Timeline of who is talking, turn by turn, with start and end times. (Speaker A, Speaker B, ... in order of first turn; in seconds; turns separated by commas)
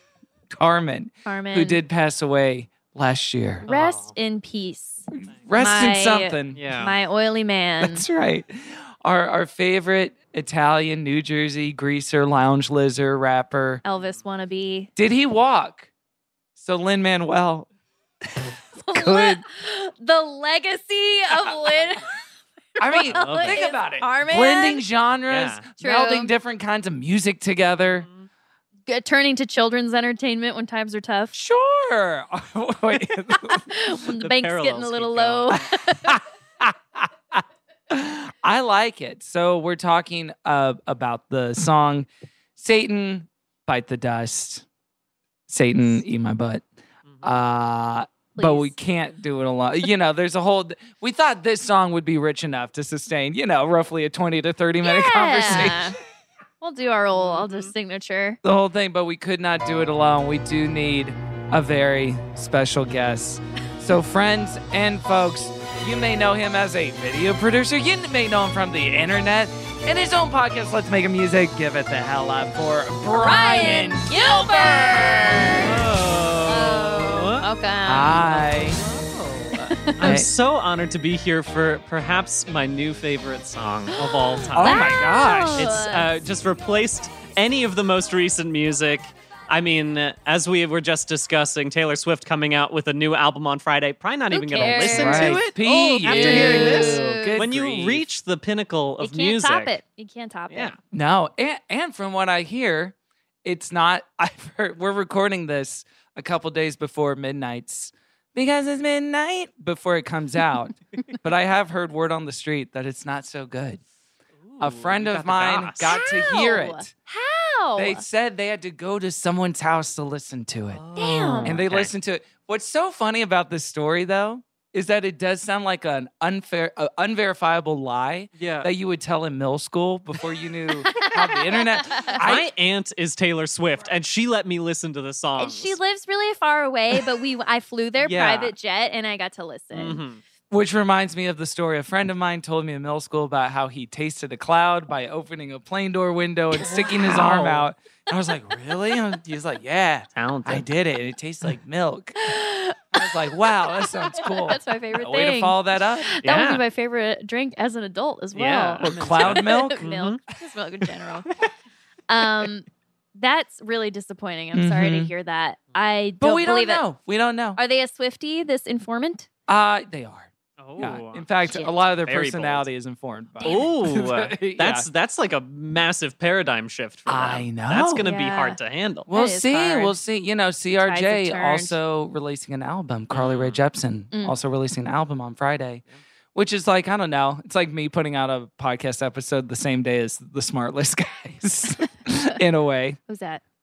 Speaker A: 0.5-3.6, Speaker B: 1.2-1.8, Speaker C: 3.7-4.1, Speaker B: 3.7-5.0, Speaker A: 5.1-6.6, Speaker B: 5.6-8.0, Speaker C: 6.5-7.0, Speaker A: 7.8-13.8, Speaker B: 13.8-14.9, Speaker A: 14.9-15.9, Speaker A: 16.6-17.7, Speaker A: 18.3-19.4, Speaker B: 18.8-22.1, Speaker B: 22.8-24.8, Speaker A: 22.8-28.1, Speaker C: 23.0-23.6, Speaker C: 25.3-25.6, Speaker B: 25.8-26.3, Speaker C: 28.0-28.2, Speaker B: 28.9-31.3, Speaker A: 31.3-33.6, Speaker B: 33.5-36.1, Speaker C: 34.2-35.7, Speaker A: 36.1-44.6, Speaker A: 45.5-46.6, Speaker A: 47.2-55.9, Speaker B: 48.4-48.7, Speaker B: 54.8-56.0, Speaker B: 56.6-58.4, Speaker C: 57.1-57.7, Speaker A: 58.4-75.6, Speaker B: 73.1-75.7, Speaker C: 75.6-77.5, Speaker B: 76.5-78.5, Speaker A: 77.8-78.8, Speaker C: 78.8-85.0, Speaker A: 79.5-80.3, Speaker B: 79.8-80.1, Speaker B: 84.0-86.1, Speaker A: 84.5-85.7, Speaker C: 85.5-99.8, Speaker B: 94.3-95.4, Speaker A: 94.6-98.0, Speaker B: 96.0-97.4, Speaker B: 99.0-100.7, Speaker C: 100.5-100.8, Speaker A: 100.9-113.8, Speaker C: 114.5-115.9, Speaker A: 114.6-116.9, Speaker B: 115.8-118.0, Speaker A: 117.8-120.8, Speaker C: 120.7-121.9, Speaker B: 121.0-121.6, Speaker A: 121.4-132.5, Speaker C: 128.4-128.7, Speaker B: 130.9-132.2, Speaker C: 132.2-135.8, Speaker B: 135.4-140.0, Speaker C: 138.0-138.5, Speaker C: 139.7-140.2, Speaker A: 140.5-152.3, Speaker C: 146.7-147.7, Speaker C: 150.1-150.6, Speaker B: 152.2-153.0, Speaker A: 152.9-156.1, Speaker B: 154.1-161.3, Speaker C: 156.2-156.6, Speaker C: 158.3-160.2, Speaker A: 158.8-159.8, Speaker B: 162.1-166.8, Speaker A: 164.5-165.1, Speaker A: 166.2-167.6, Speaker B: 167.6-169.3, Speaker A: 169.5-174.9, Speaker C: 170.6-171.3, Speaker B: 171.5-171.8, Speaker C: 172.0-172.7, Speaker C: 173.4-179.1, Speaker B: 173.4-173.7, Speaker A: 177.1-178.0, Speaker B: 178.0-178.6, Speaker A: 179.1-185.8, Speaker B: 179.1-179.9, Speaker B: 180.8-181.8, Speaker C: 183.1-183.6, Speaker A: 186.3-193.0, Speaker B: 193.1-193.4